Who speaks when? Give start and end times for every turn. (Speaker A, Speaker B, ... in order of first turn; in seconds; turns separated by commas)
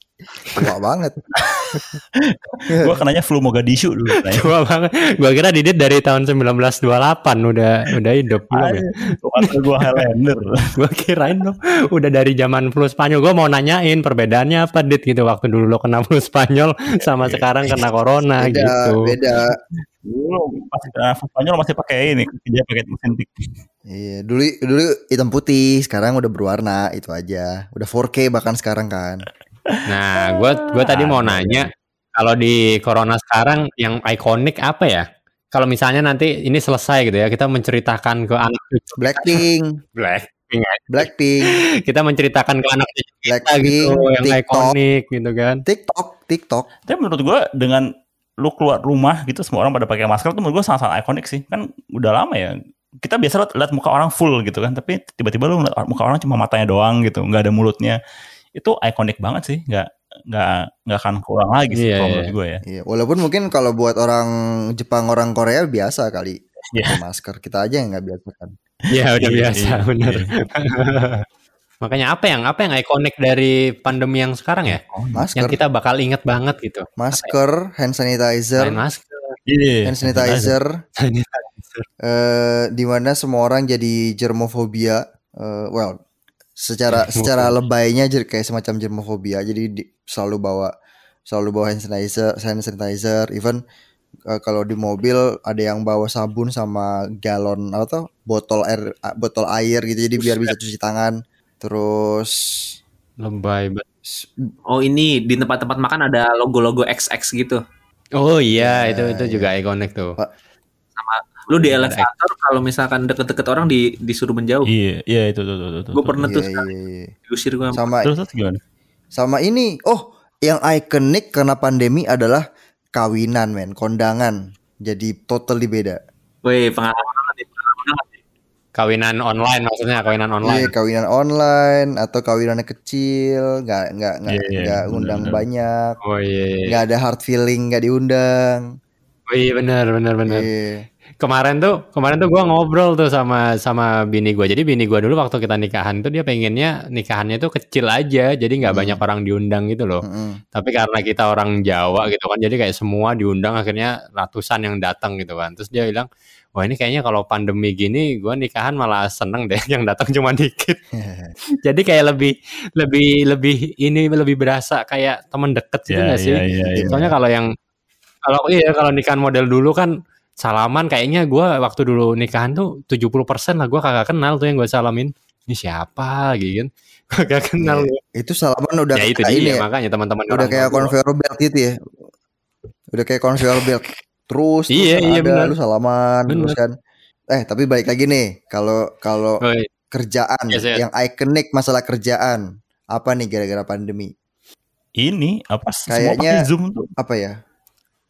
Speaker A: 0.6-1.2, Speaker B: 1.4-4.5, Speaker C: 4.3-8.9, Speaker B: 8.5-10.7, Speaker C: 9.4-10.0, Speaker C: 10.8-19.1, Speaker B: 17.2-17.8, Speaker A: 18.4-19.6, Speaker B: 19.5-23.3, Speaker A: 23.9-29.3, Speaker C: 29.9-39.4, Speaker B: 30.4-31.6, Speaker A: 39.0-39.7, Speaker C: 40.0-41.0, Speaker A: 40.9-41.6, Speaker C: 41.9-45.6, Speaker A: 43.3-44.8, Speaker A: 45.7-46.7, Speaker B: 46.9-47.9, Speaker B: 48.4-58.0, Speaker B: 58.5-62.6, Speaker C: 61.7-62.3, Speaker A: 62.7-68.5, Speaker B: 66.7-67.0, Speaker C: 68.9-71.2, Speaker B: 69.2-70.3, Speaker C: 71.8-74.8, Speaker B: 74.7-75.2, Speaker A: 75.2-75.6, Speaker C: 75.4-77.3, Speaker A: 77.0-78.8, Speaker C: 78.6-79.4, Speaker B: 79.5-80.5, Speaker A: 79.8-80.7, Speaker C: 81.0-81.8, Speaker A: 82.0-86.0, Speaker A: 86.6-90.7, Speaker C: 86.9-87.5, Speaker A: 91.3-93.6, Speaker A: 94.3-102.3, Speaker C: 100.2-100.5, Speaker C: 103.2-103.8, Speaker A: 104.1-104.5, Speaker D: 104.7-107.6, Speaker C: 108.2-110.2, Speaker A: 108.6-109.5, Speaker D: 111.0-114.7, Speaker C: 111.5-112.1, Speaker B: 114.7-116.3, Speaker D: 115.9-116.7, Speaker A: 116.3-117.1, Speaker D: 117.3-117.9, Speaker A: 117.7-118.1, Speaker B: 118.0-118.6, Speaker A: 119.2-122.5, Speaker A: 123.0-126.0, Speaker D: 126.5-128.2, Speaker C: 128.8-130.7, Speaker A: 130.4-135.9, Speaker B: 134.3-135.4, Speaker C: 136.0-136.7, Speaker A: 136.7-138.7, Speaker C: 139.3-140.5, Speaker A: 140.3-140.8, Speaker C: 141.2-150.0, Speaker A: 148.7-149.0, Speaker A: 150.0-150.4, Speaker C: 150.6-160.8, Speaker A: 161.0-161.3, Speaker C: 161.7-167.5, Speaker B: 165.9-167.0, Speaker A: 166.7-167.1, Speaker C: 168.2-169.9, Speaker C: 170.4-178.0, Speaker A: 177.6-179.7, Speaker C: 178.9-180.9, Speaker A: 180.3-181.7, Speaker A: 182.9-186.7, Speaker C: 184.7-185.5, Speaker C: 186.3-186.6, Speaker A: 187.3-189.4, Speaker C: 189.4-189.7, Speaker A: 189.9-194.1, Speaker C: 190.5-190.8, Speaker B: 195.0-196.9, Speaker A: 195.9-196.4, Speaker A: 197.0-197.4